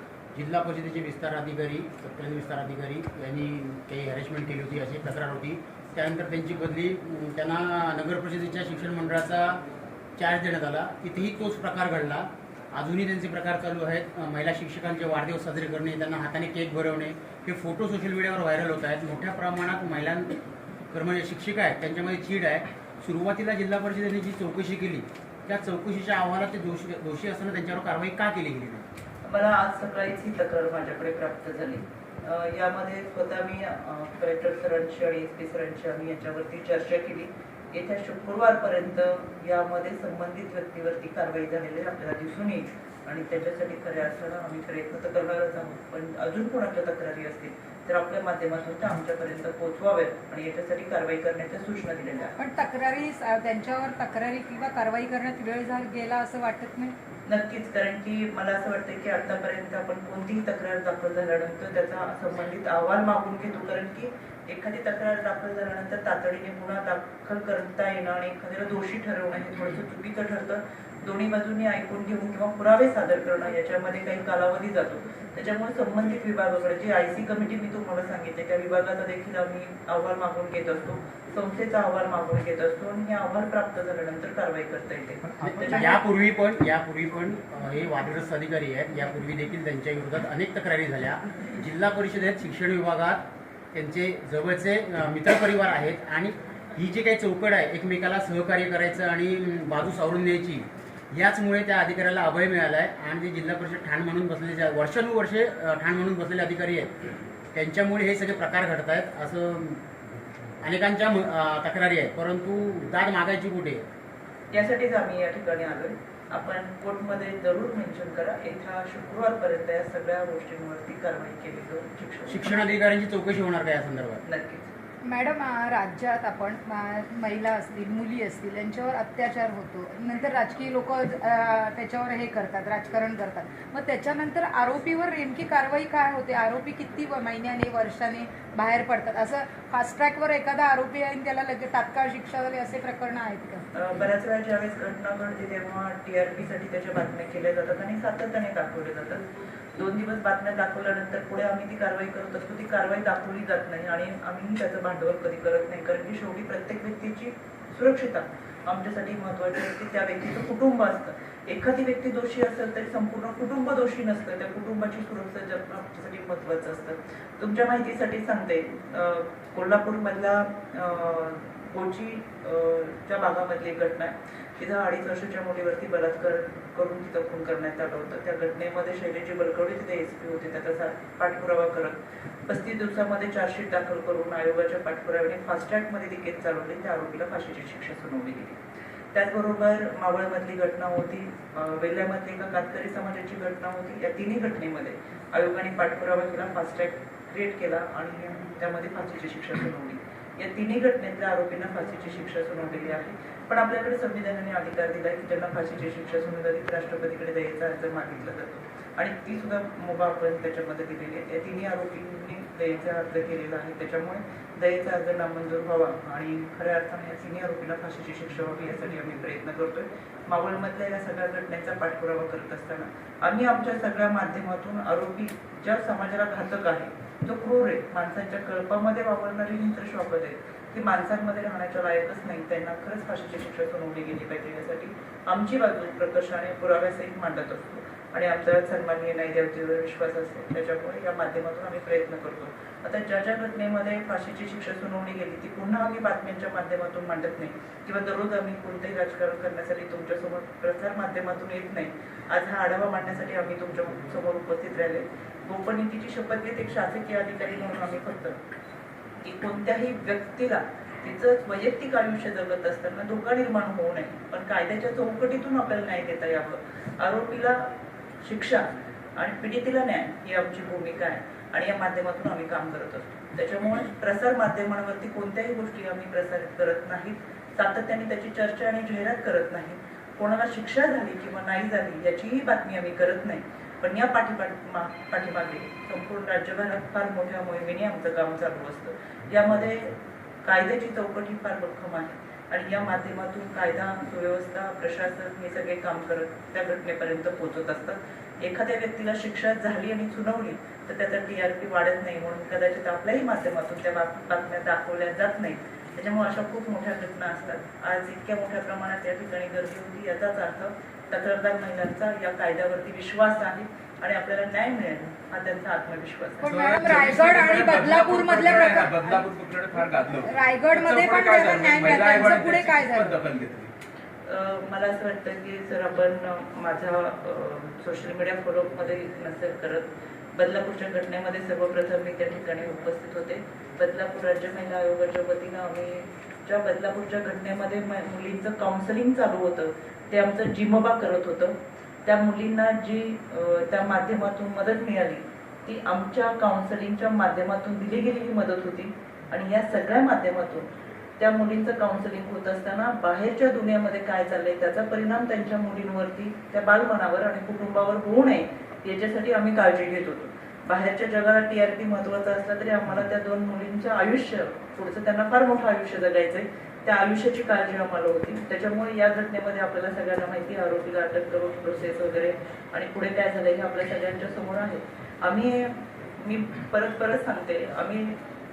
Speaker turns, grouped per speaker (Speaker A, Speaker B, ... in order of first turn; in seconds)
Speaker A: 0.3-9.6, 10.2-20.4, 20.9-28.9, 85.4-109.8, 110.6-113.8, 122.3-124.2
Speaker B: 29.3-52.4, 57.3-86.0, 114.5-122.5, 124.2-124.7, 143.7-188.6, 189.1-258.4, 259.2-267.7, 268.2-289.9, 290.4-317.5, 324.3-378.2
Speaker C: 52.4-57.0, 125.0-143.7, 316.4-319.2, 320.2-323.2
Speaker D: 316.5-323.7